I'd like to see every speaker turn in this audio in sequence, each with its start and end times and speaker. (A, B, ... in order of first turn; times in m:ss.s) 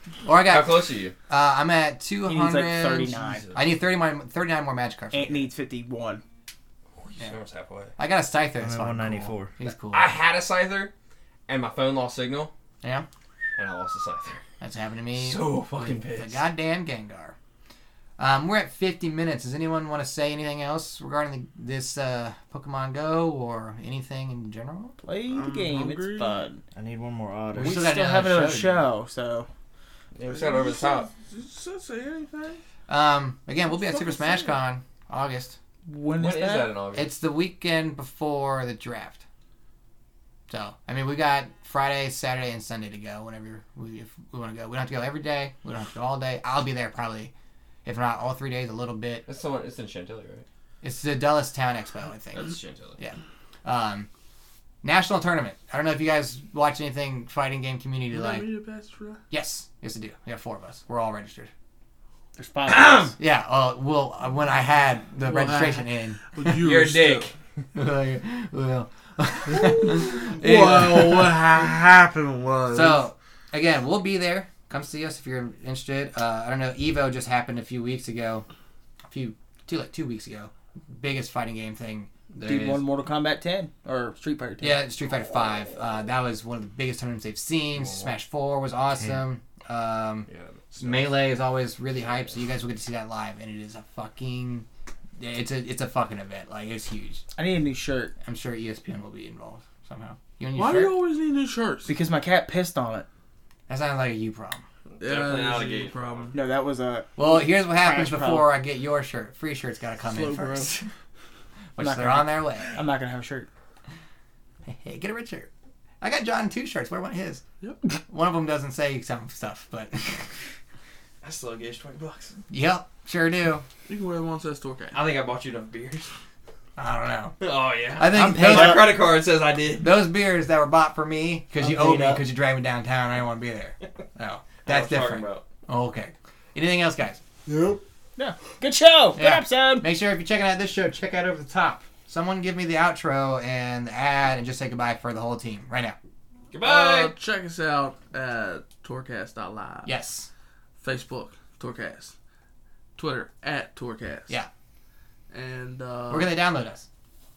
0:00.2-0:05.5 A
0:00.4-0:01.1 B
0:02.3-0:03.4 C
0:03.2-0:03.6 B
0:05.1-0:06.2 C
0:07.0-0:07.9 B
0:08.0-0:10.1 A
0:08.6-0:09.5 D
0:09.9-0:10.9 B
0:11.5-0:12.5 B
0:13.6-0:14.4 B
0:14.6-0:17.3 A
0:15.1-0:16.4 B
0:18.2-0:25.0 A
0:25.0-0:26.6 C
0:25.3-0:26.4 E
0:26.7-0:27.9 D
0:27.6-0:29.5 C
0:27.6-0:28.8 A
0:30.1-0:31.1 B
0:30.2-0:32.6 E
0:32.9-0:35.6 A
0:33.7-0:34.6 E
0:35.8-0:36.7 C
0:36.2-0:37.1 B
0:36.9-0:39.2 A
0:40.5-0:47.3 A
0:47.8-0:49.2 A
0:49.3-0:50.4 B
0:50.8-0:54.1 A
0:52.3-0:53.0 B
0:54.8-0:58.5 A
0:58.1-0:59.2 E
0:59.3-1:01.5 A
1:02.4-1:03.1 C
1:02.7-1:03.1 B
1:03.2-1:06.6 A
1:05.2-1:07.3 E
1:06.6-1:07.3 B
1:07.7-1:11.6 A
1:09.5-1:13.0 E
1:12.7-1:18.4 A
1:19.1-1:22.8 A
1:22.4-1:24.8 C
1:24.6-1:30.3 A
1:27.7-1:28.1 B
1:30.3-1:31.1 B
1:30.8-1:34.7 A
1:35.2-1:37.2 A
1:37.4-1:38.1 C
1:38.2-1:41.0 A
1:40.5-1:41.9 E
1:41.8-1:43.1 C
1:43.7-1:44.6 A
1:44.9-1:46.3 B
1:45.0-1:46.4 E
1:46.3-1:48.5 C
1:47.2-1:50.8 A
1:50.0-1:50.8 E
1:51.7-1:52.8 A
1:51.8-1:53.5 C
1:54.6-1:55.5 A
1:56.0-1:57.4 A
1:58.1-2:00.3 A
2:01.2-2:02.4 B
2:02.5-2:03.6 A
2:03.9-2:05.0 E
2:04.9-2:06.1 B
2:06.8-2:07.4 A
2:07.4-2:09.9 B
2:08.0-2:08.9 A
2:08.1-2:08.9 D
2:09.8-2:17.2 A
2:11.6-2:12.2 D
2:14.6-2:15.4 B
2:17.5-2:17.8 E
2:18.2-2:19.8 C
2:19.2-2:26.0 A
2:26.5-2:27.1 B
2:26.6-2:29.9 E
2:29.8-2:30.3 A
2:30.8-2:32.1 E
2:33.0-2:34.3 E
2:35.3-2:36.3 E
2:36.1-2:36.8 A